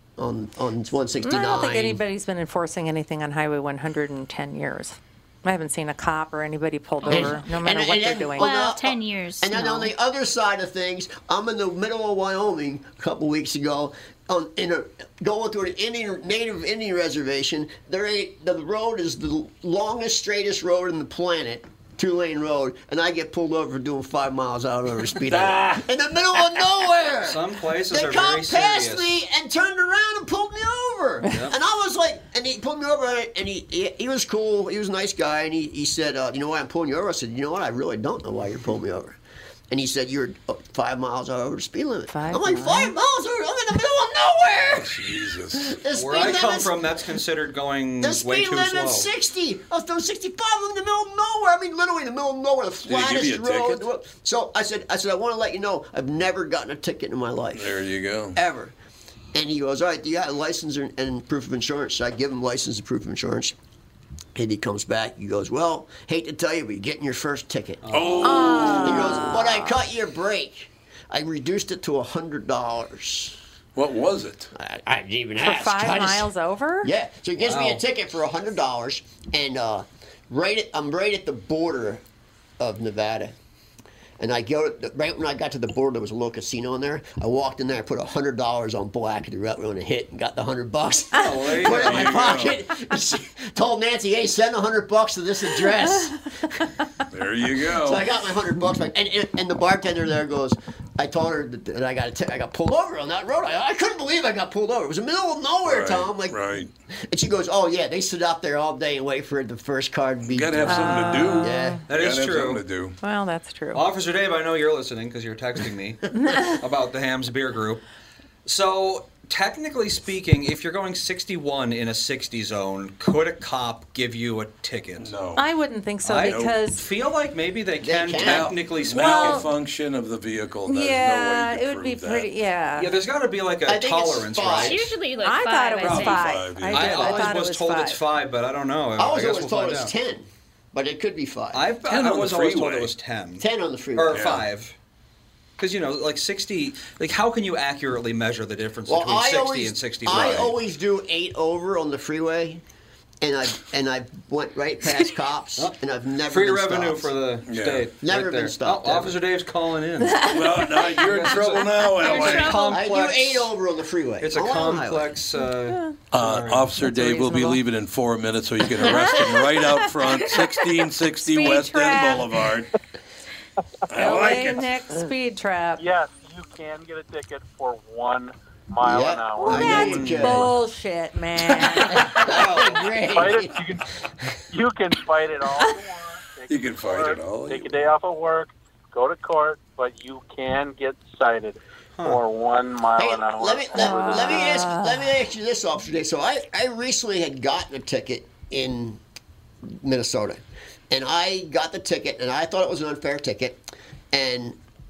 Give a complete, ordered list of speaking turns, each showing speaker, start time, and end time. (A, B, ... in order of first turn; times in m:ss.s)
0:00.2-0:02.0 A
0:01.2-0:08.6 B
0:07.0-0:07.3 C
0:07.0-0:39.2 A
0:08.4-0:09.7 C
0:09.6-0:09.8 B
0:25.2-0:25.8 D
0:27.2-0:29.1 E
0:31.3-0:31.6 E
0:39.7-0:44.9 A
0:42.1-0:42.9 B
0:44.7-0:45.8 D
0:45.6-0:46.8 A
0:45.9-0:49.1 E
0:48.0-0:57.8 A
0:52.8-0:53.8 D
0:57.5-0:58.4 D
0:58.3-0:58.7 A
0:59.3-1:03.5 A
1:04.3-1:07.8 A
1:07.8-1:08.7 E
1:07.9-1:09.2 D
1:08.2-1:09.8 B
1:08.5-1:13.4 A
1:13.8-1:14.5 D
1:14.5-1:16.3 A
1:15.4-1:16.9 B
1:16.8-1:22.0 A
1:17.4-1:17.8 E
1:22.6-1:23.3 A
1:24.2-1:36.6 A
1:31.2-1:32.2 E
1:31.6-1:32.6 D
1:37.1-1:38.0 D
1:37.7-1:46.4 A
1:45.6-1:46.7 D
1:46.9-1:51.8 A
1:50.3-1:53.0 D
1:50.6-1:51.8 B
1:51.0-1:51.4 E
1:51.9-1:52.6 E
1:53.0-1:53.8 B
1:53.7-1:56.1 E
1:56.1-1:56.6 B
1:56.6-1:57.8 E
1:58.4-2:05.1 E
2:05.0-2:05.5 D
2:05.4-2:06.8 B
2:06.0-2:09.5 E
2:06.2-2:06.7 D
2:07.8-2:08.6 A
2:08.1-2:12.3 D
2:08.9-2:09.5 B
2:10.7-2:13.0 B
2:12.8-2:14.9 E
2:13.6-2:14.9 A
2:14.4-2:16.4 C
2:15.2-2:18.0 B
2:15.8-2:17.3 D
2:16.7-2:19.9 E
2:19.0-2:21.6 A
2:21.5-2:24.7 E
2:21.8-2:22.9 D
2:23.4-2:24.2 A
2:24.1-2:24.4 D
2:25.6-2:30.5 E
2:28.9-2:32.6 A
2:30.1-2:30.5 D
2:33.2-2:37.1 A
2:35.6-2:40.3 E
2:37.5-2:37.9 D
2:38.0-2:39.2 A
2:40.0-2:41.3 B
2:40.2-2:42.7 D
2:41.0-2:43.5 E
2:42.0-2:43.0 C
2:42.7-2:45.2 A
2:44.2-2:46.7 E
2:45.7-2:45.9 B
2:46.1-2:52.7 D
2:46.8-2:47.6 B
2:48.7-2:50.4 B
2:51.2-2:52.3 B
2:53.9-2:54.7 D
2:53.9-2:55.8 B
2:55.8-2:59.9 F
2:58.8-3:00.5 A
2:59.5-3:02.2 B
2:59.6-3:00.5 E
3:01.7-3:03.6 A
3:02.3-3:03.0 E
3:03.1-3:03.8 F
3:04.5-3:14.4 F
3:06.5-3:07.9 D
3:12.0-3:12.2 E
3:13.0-3:19.0 A
3:13.7-3:15.1 B
3:19.6-3:24.6 A